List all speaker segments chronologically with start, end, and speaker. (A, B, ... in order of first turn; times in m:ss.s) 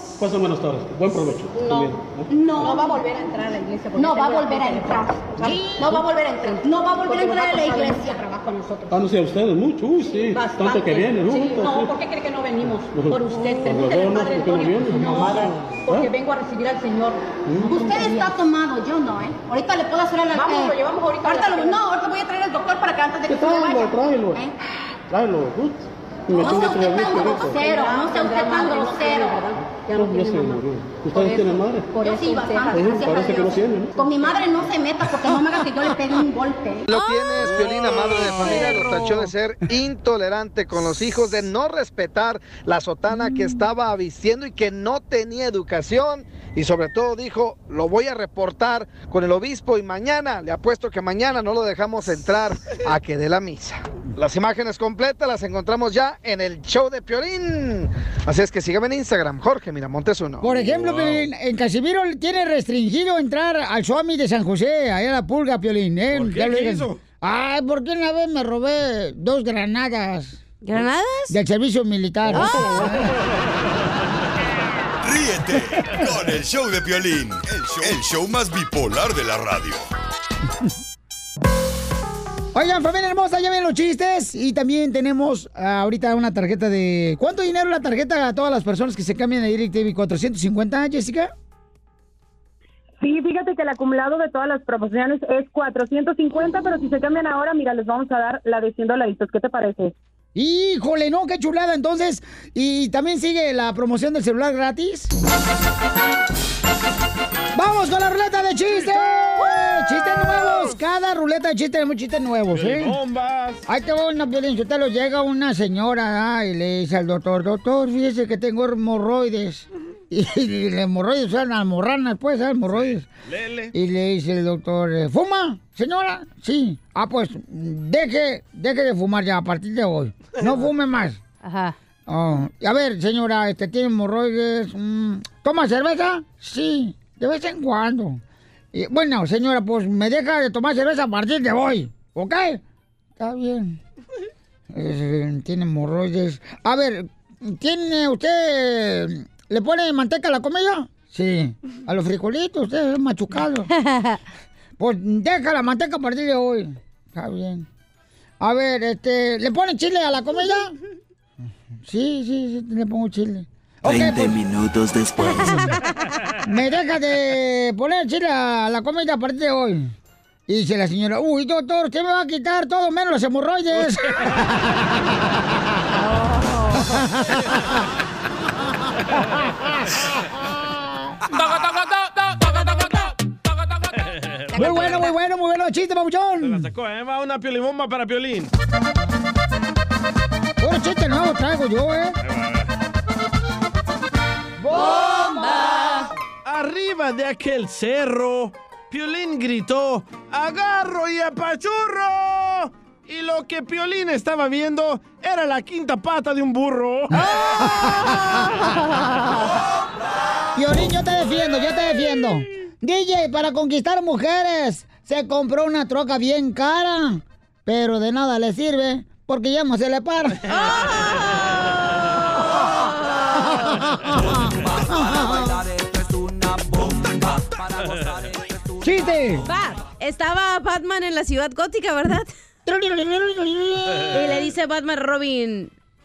0:00.2-0:02.9 A
0:01.5-0:09.0 B
0:04.0-0:04.5 C
0:08.9-0:12.0 A
0:10.0-0:24.5 B
0:12.6-0:16.1 A
0:17.4-0:18.3 A
0:23.3-0:24.5 A
0:25.1-0:28.9 A
0:26.3-0:30.6 B
0:29.7-0:34.0 A
0:31.1-0:36.8 B
0:36.8-1:00.5 D
0:36.9-0:39.3 E
1:00.4-1:10.4 F
1:00.5-1:01.3 G
1:06.1-1:07.0 G
1:10.6-1:11.4 E
1:11.3-1:13.1 F
1:12.3-1:12.9 E
1:15.0-1:19.9 H
1:22.5-1:31.3 F
1:33.0-1:39.9 C
1:40.3-1:45.1 F
1:47.5-1:53.0 F
1:50.1-1:50.7 G
1:52.5-1:53.6 G
1:53.6-2:03.0 F
2:02.7-2:03.7 G
2:03.7-2:11.2 F
2:11.4-2:11.8 E
2:12.1-2:18.2 F
2:18.7-2:22.6 F
2:23.2-2:23.8 F
2:24.7-2:33.7 F
2:33.7-2:34.2 E
2:34.8-2:37.6 F
2:38.4-2:40.7 F
2:41.8-2:44.4 F
2:43.8-2:45.7 I
2:46.4-2:49.9 F
2:50.5-2:55.4 F
2:56.2-2:56.8 E
2:56.9-2:57.7 F
3:00.5-3:00.9 F
3:03.9-3:05.0 G
3:04.5-3:06.7 F
3:06.4-3:08.5 G
3:10.6-3:12.2 F
3:12.2-3:12.7 G
3:14.6-3:15.6 F
3:14.7-3:16.1 E
3:16.4-3:27.2 G
3:27.5-3:28.4 F
3:30.6-3:40.4 F
3:40.5-3:41.4 E
3:43.5-3:45.5 F
3:44.6-3:49.2 I
3:48.8-3:49.4 F
3:49.4-3:52.3 E
3:52.6-3:54.3 F
3:54.1-3:55.7 E